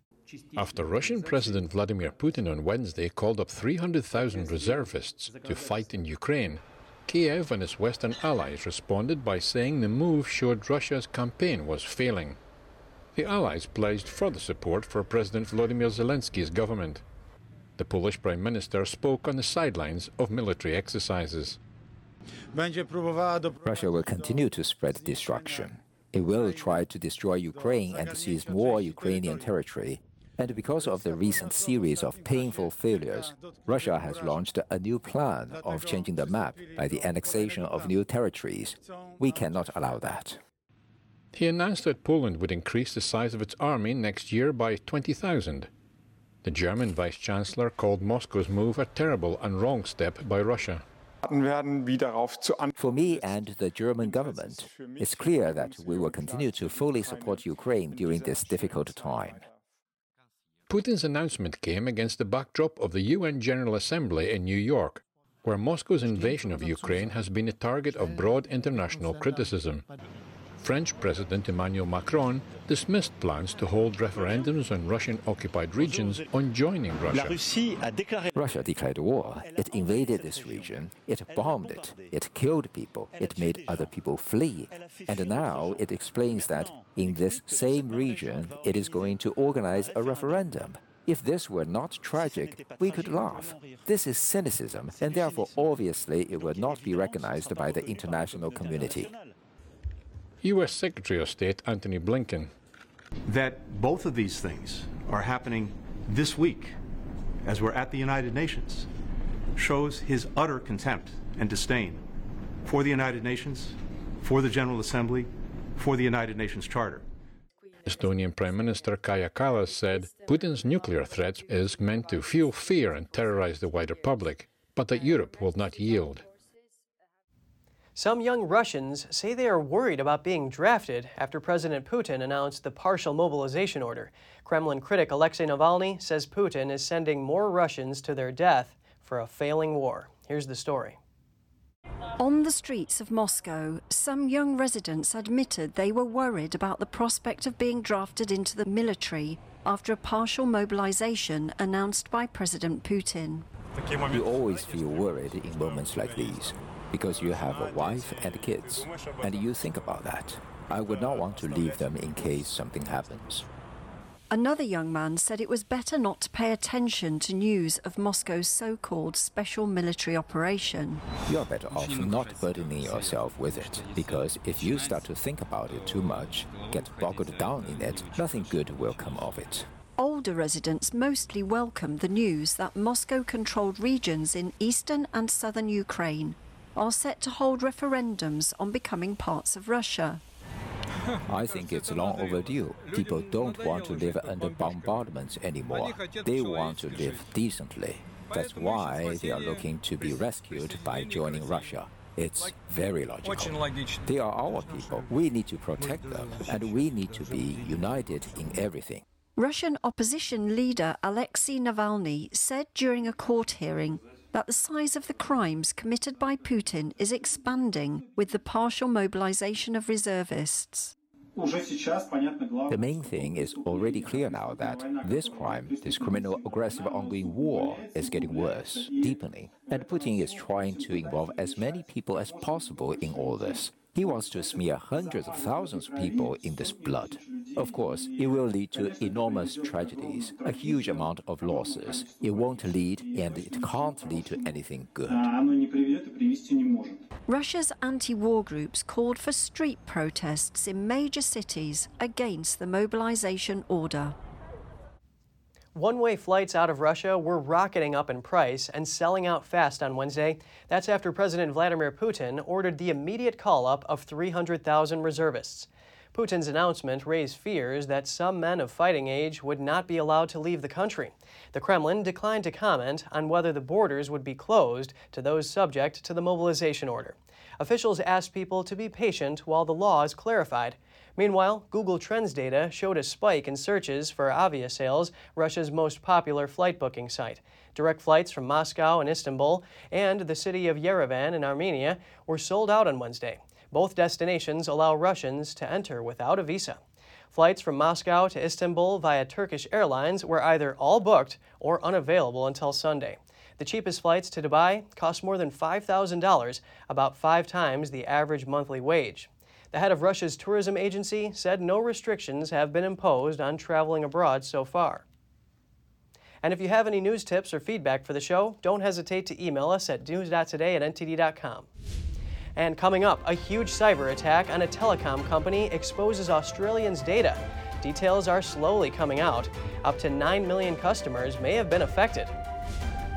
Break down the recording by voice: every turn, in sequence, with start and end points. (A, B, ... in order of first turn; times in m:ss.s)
0:00.6-0:12.4 A
0:13.2-0:17.0 A
0:17.8-0:21.6 A
0:23.6-0:40.4 B
0:41.3-0:45.7 A
0:46.4-0:50.8 A
0:52.8-0:59.4 B
1:00.7-1:09.8 A
1:10.6-1:17.5 A
1:18.3-1:39.1 B
1:40.4-1:42.5 A
1:43.3-1:46.8 C
1:47.4-1:48.9 C
1:49.6-1:52.0 C
1:52.6-1:57.1 C
1:57.9-2:06.2 A
2:08.0-2:21.0 D
2:22.2-2:33.5 E
2:34.0-2:43.5 B
2:44.3-2:51.0 E
2:51.2-2:59.7 B
3:00.0-3:10.2 E
3:11.3-3:29.0 B
3:29.4-3:40.9 E
3:42.7-4:05.3 B
4:07.3-4:14.2 E
4:15.8-4:56.8 D
4:57.3-5:15.0 D
5:16.4-5:21.7 D
5:22.6-5:32.4 D